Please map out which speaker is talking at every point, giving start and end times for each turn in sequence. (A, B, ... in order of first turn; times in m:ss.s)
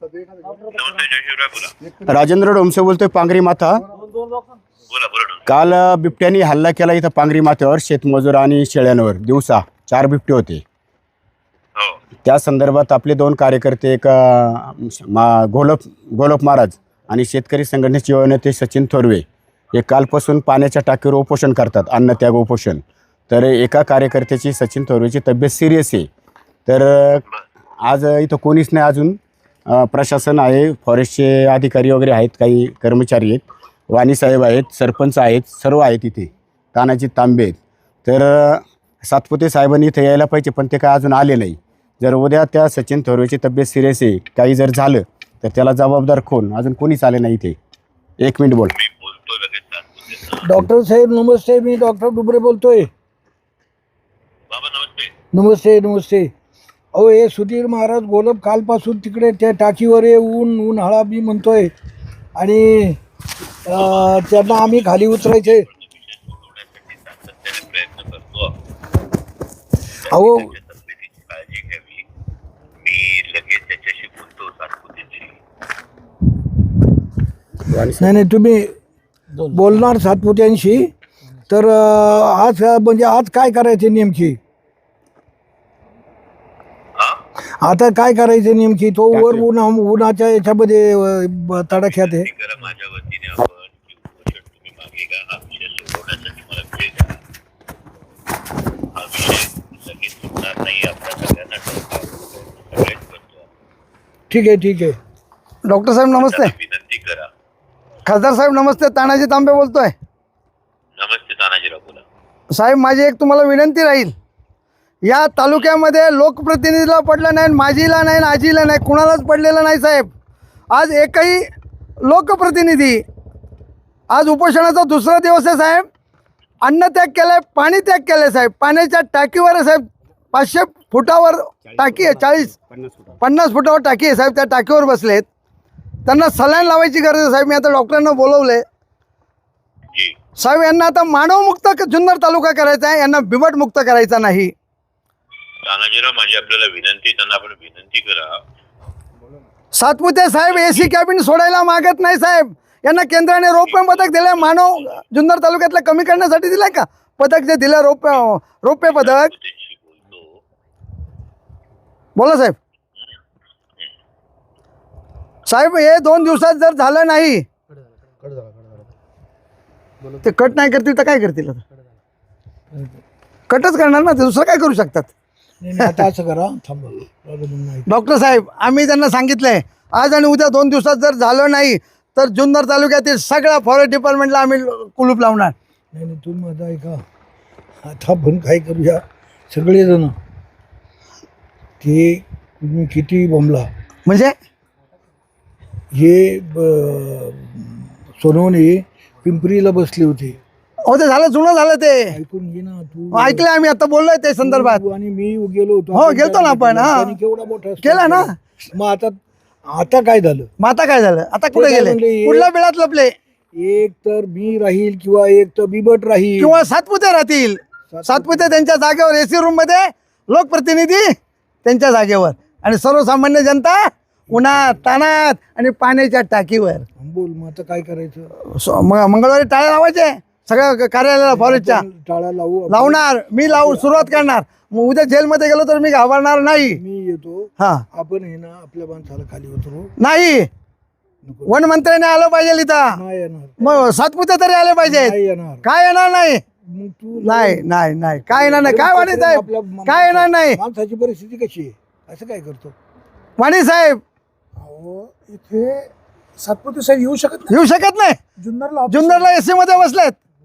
0:00.7-0:01.7 A
0:01.9-0:03.8 B
0:04.9-0:05.5 A
0:05.5-0:10.6 B
0:12.2-0:26.1 B
0:26.7-0:27.2 B
0:27.8-0:47.6 B
0:48.2-0:48.7 B
0:48.7-0:50.4 A
0:50.4-0:52.9 C
0:54.5-0:55.1 A
0:55.3-0:56.3 C
0:56.9-1:01.7 C
1:02.4-1:03.0 C
1:03.7-1:05.7 C
1:03.8-1:04.1 A
1:05.5-1:08.6 A
1:10.0-1:12.1 A
1:10.1-1:10.5 C
1:12.8-1:15.4 A
1:17.6-1:18.2 B
1:18.0-1:18.7 C
1:19.4-1:20.9 C
1:21.5-1:24.4 C
1:27.6-1:32.3 C
1:29.2-1:29.4 B
1:31.9-1:37.2 A
1:39.0-1:43.4 A
1:44.3-1:45.0 C
1:45.7-1:46.5 D
1:46.1-1:47.3 A
1:48.0-1:49.9 D
1:51.0-1:52.0 A
1:52.5-1:54.1 D
1:55.0-2:00.1 D
2:00.7-2:01.4 D
2:02.0-2:03.0 D
2:04.1-2:05.9 D
2:06.6-2:12.5 D
2:11.7-2:13.2 B
2:13.2-2:15.3 D
2:16.1-2:18.6 D
2:20.4-2:24.5 D
2:25.6-2:28.3 A
2:29.7-2:39.3 D
2:33.8-2:34.3 A
2:39.0-2:40.3 A
2:42.2-2:42.6 D
2:45.5-2:47.4 D
2:50.2-2:51.6 D
2:53.5-2:55.1 D
2:55.6-2:57.9 C
2:57.9-3:05.5 D
3:05.9-3:07.0 C
3:07.8-3:10.1 C
3:11.8-3:13.7 C
3:14.1-3:14.4 D
3:15.9-3:20.4 C
3:20.9-3:22.2 D
3:22.1-3:23.5 C
3:23.1-3:24.8 D
3:24.4-3:30.5 C
3:25.9-3:27.1 D
3:27.8-3:28.3 D
3:30.6-3:33.1 D
3:31.5-3:32.5 C
3:33.6-3:36.7 C
3:36.4-3:41.1 D
3:37.9-3:38.5 C
3:41.6-3:46.9 D
3:44.3-3:44.8 C
3:47.0-3:48.3 C
3:48.4-3:51.8 D
3:51.2-3:54.4 C
3:52.7-3:56.8 D
3:56.6-3:59.9 C
3:57.6-3:57.8 D
4:00.0-4:00.5 D
4:01.2-4:01.6 C
4:01.5-4:03.0 D
4:02.9-4:03.9 C
4:03.6-4:06.4 D
4:04.8-4:05.7 C
4:06.6-4:12.8 C
4:07.2-4:10.6 D
4:13.4-4:14.0 D
4:14.7-4:15.8 E
4:16.5-4:17.4 E
4:17.5-4:18.2 D
4:18.5-4:18.8 E
4:18.9-4:20.2 D